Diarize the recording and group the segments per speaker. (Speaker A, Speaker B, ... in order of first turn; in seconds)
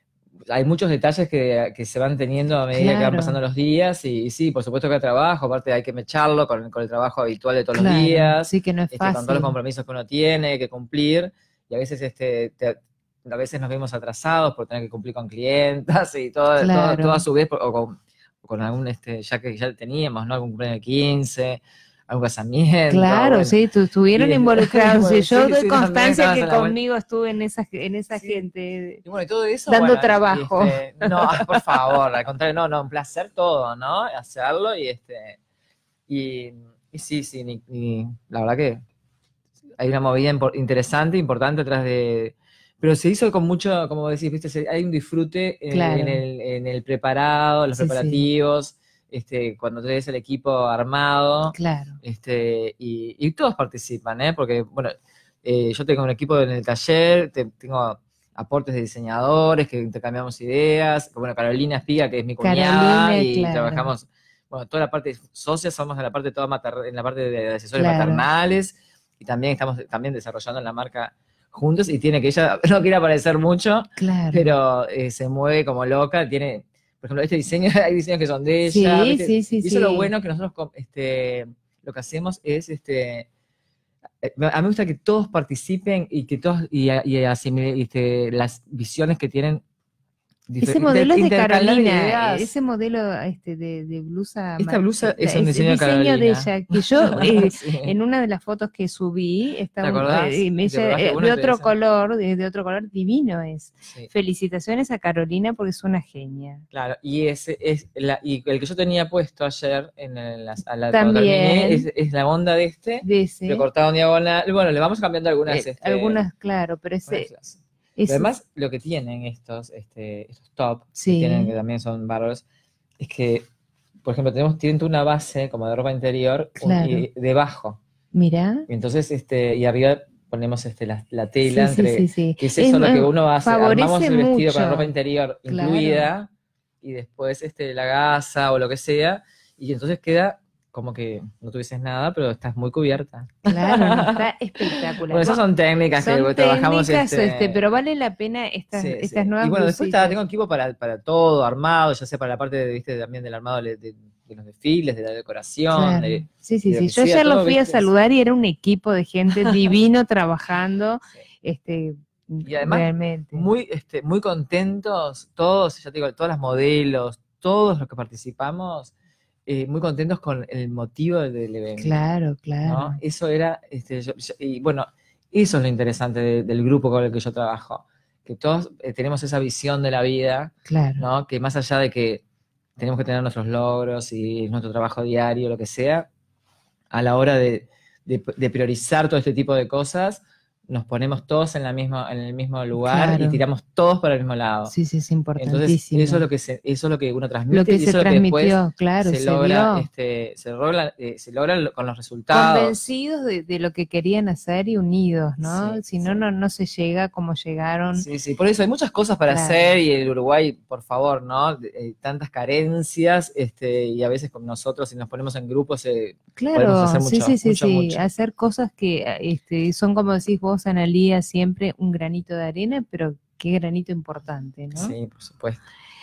Speaker A: 0.5-23.6, 24.1-26.8, 28.1-28.4, 29.0-35.4, 36.1-38.8, 39.8-83.3, 84.2-89.6, 90.5-92.5, 94.6-97.9, 99.8-101.7, 106.7-116.2, 117.1-122.4, 123.0-123.5, 124.0-127.8, 128.7-136.3, 136.8-144.2, 144.8-147.6, 148.7-157.9, 162.4-168.9, 169.4-171.9, 172.6-182.2, 182.8-186.1, 186.9-194.7, 195.4-202.8, 205.4-206.2, 207.9-218.1, 224.7-225.6
Speaker B: 2.7-3.4, 7.7-9.5, 16.6-17.2, 22.9-29.0, 29.7-31.6, 45.7-46.2, 47.7-48.2, 51.5-52.0, 62.4-63.9, 67.8-68.2, 74.0-74.5, 78.7-80.1, 90.6-106.6, 110.9-111.9, 113.0-113.7, 115.5-117.3, 118.0-118.3, 121.0-121.5, 126.6-127.0, 128.1-128.7, 131.4-134.9, 135.5-136.1, 143.4-145.4, 146.0-150.2, 155.7-163.5, 171.8-173.0, 180.7-181.0, 192.8-193.4, 194.7-196.2, 197.5-199.9, 202.3-208.1, 209.3-209.8, 216.3-224.9